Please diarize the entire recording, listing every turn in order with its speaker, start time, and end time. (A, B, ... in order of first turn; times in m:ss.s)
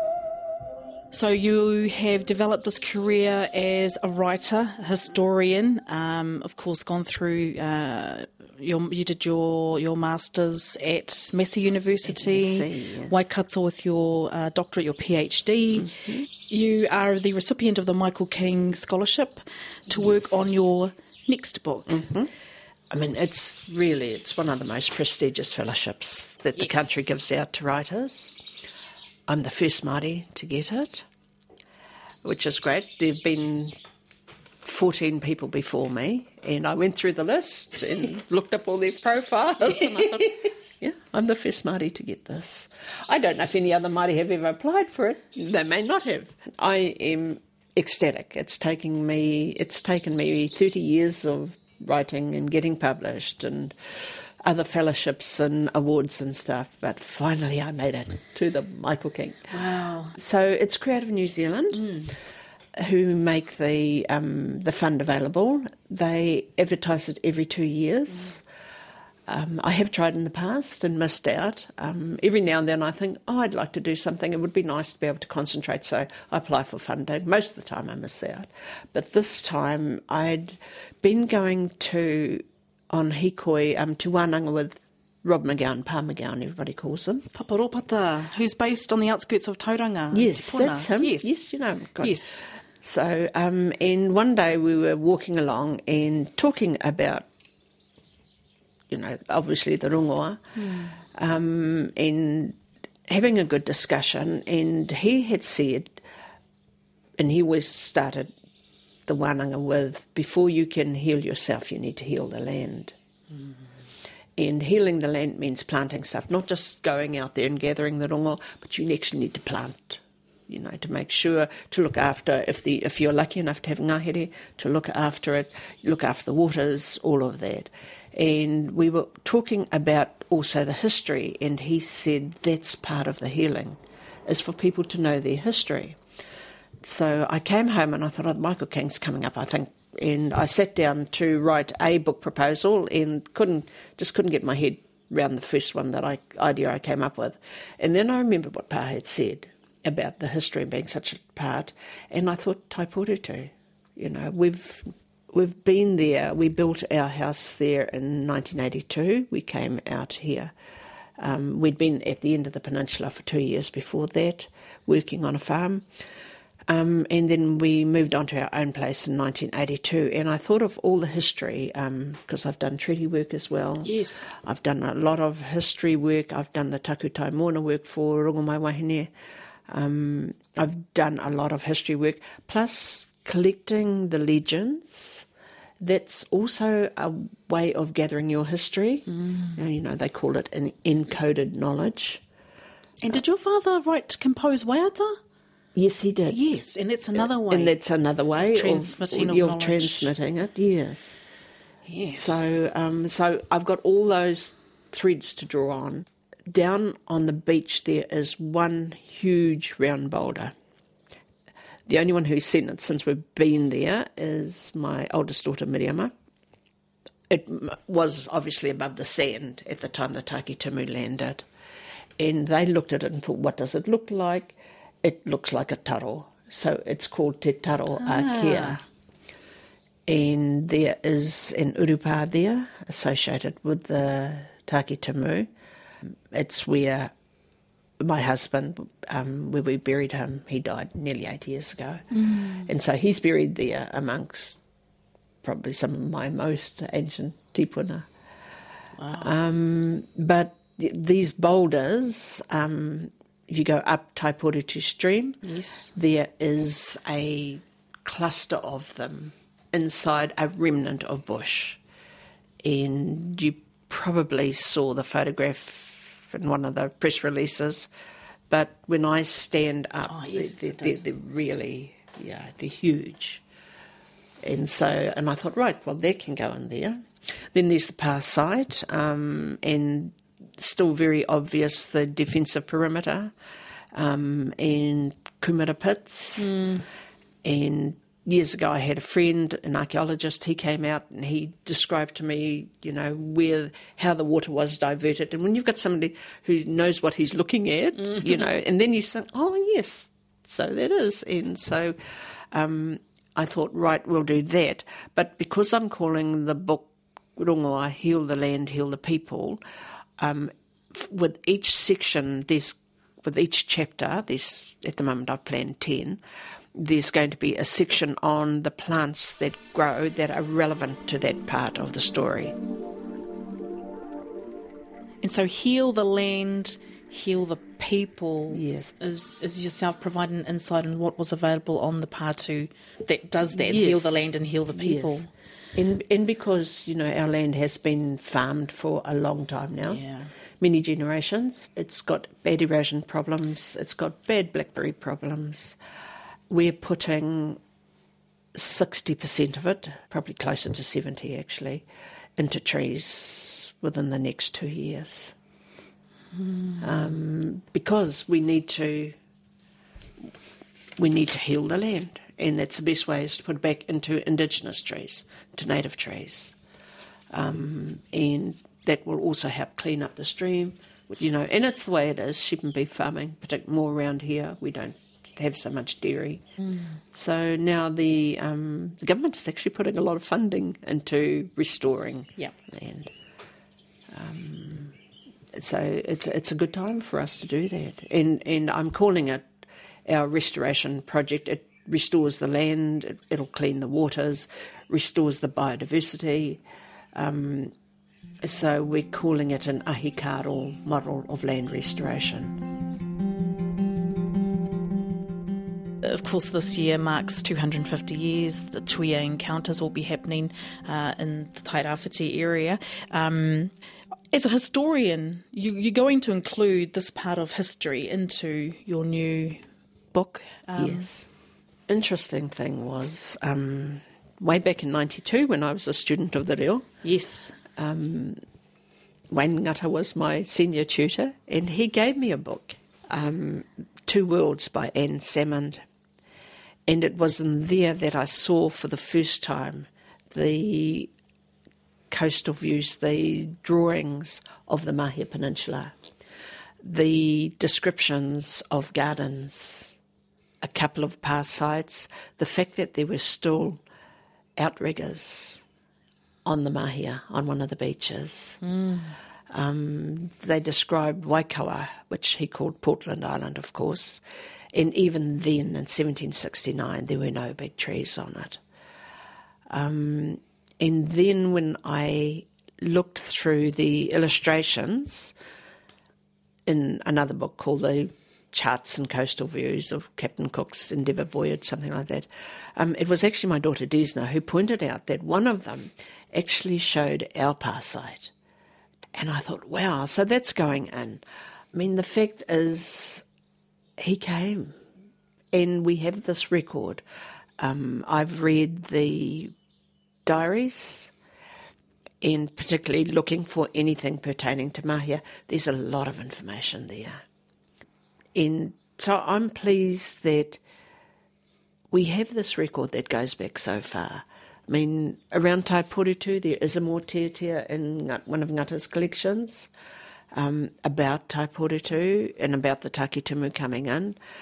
0:01.1-0:22.0 A
0:12.0-0:13.2 B
0:15.9-0:16.3 B
0:21.9-0:22.3 B
0:22.9-0:28.3 B
0:26.6-0:26.8 A
0:29.3-0:31.1 B
0:32.2-0:33.8 B
0:34.6-0:53.8 B
0:39.6-0:40.8 A
0:54.4-0:59.6 B
0:59.5-1:00.2 A
1:00.1-1:02.1 B
1:02.8-1:08.4 B
1:09.3-1:27.3 B
1:27.3-1:31.4 A
1:30.1-1:37.3 B
1:32.0-1:32.4 A
1:38.9-1:40.4 B
1:40.6-1:40.9 A
1:41.1-1:46.0 B
1:47.2-1:48.3 B
1:49.1-1:53.0 B
1:54.4-2:16.0 B
2:16.8-2:40.5 B
2:41.2-2:45.8 B
2:46.7-2:59.1 B
2:53.8-2:54.3 A
2:59.7-3:05.3 B
3:05.8-3:12.2 B
3:13.0-3:15.2 A
3:15.8-3:16.4 B
3:16.3-3:17.8 A
3:17.2-3:21.1 B
3:18.4-3:20.1 A
3:21.9-3:22.4 A
3:22.0-3:30.5 B
3:31.9-3:36.1 B
3:37.3-3:41.4 B
3:42.2-3:48.8 B
3:48.0-3:48.8 A
3:50.1-3:55.5 B
3:56.3-3:57.1 B
3:58.0-4:04.6 B
4:02.2-4:02.6 A
4:05.4-4:08.1 B
4:09.0-4:09.3 A
4:09.1-4:15.4 B
4:15.4-4:15.9 A
4:15.9-4:21.8 B
4:22.6-4:27.9 B
4:28.5-4:33.4 B
4:30.1-4:31.0 A
4:34.4-4:43.3 B
4:43.9-4:46.6 B
4:46.4-4:46.8 A
4:47.4-5:02.0 B
5:02.5-5:09.6 B
5:10.2-5:16.2 B
5:16.8-5:22.6 B
5:25.2-5:35.3 A
5:28.5-5:28.9 B
5:33.6-5:35.2 B
5:35.8-5:40.0 B
5:39.9-5:40.3 A
5:40.6-5:45.8 B
5:46.5-5:47.6 B
5:48.6-5:51.8 B
5:52.4-5:55.4 B
5:56.5-5:56.8 A
5:56.8-5:59.2 B
6:01.0-6:06.6 B
6:07.3-6:16.4 B
6:17.1-6:23.1 B
6:24.1-6:25.0 B
6:25.5-6:29.5 B
6:30.1-6:36.6 B
6:37.2-6:37.7 B
6:38.4-6:42.6 B
6:46.0-6:53.7 A
6:54.3-6:59.6 A
7:00.1-7:01.1 A
7:00.8-7:01.3 B
7:01.9-7:06.9 B
7:07.0-7:07.6 A
7:07.8-7:08.4 B
7:09.3-7:15.8 B
7:16.9-7:21.1 B
7:22.1-7:26.0 B
7:26.8-7:30.0 B
7:30.6-7:33.8 B
7:34.6-7:35.6 B
7:36.4-7:38.6 B
7:38.6-7:39.1 A
7:39.5-7:44.2 B
7:44.7-7:48.6 B
7:49.7-7:55.3 B
7:56.7-8:08.3 B
8:09.2-8:13.2 B
8:14.0-8:14.8 B
8:15.5-8:17.0 B
8:17.6-8:19.5 B
8:20.3-8:21.1 B
8:22.2-8:27.2 B
8:28.4-8:30.6 B
8:31.9-8:39.7 B
8:40.3-8:44.2 B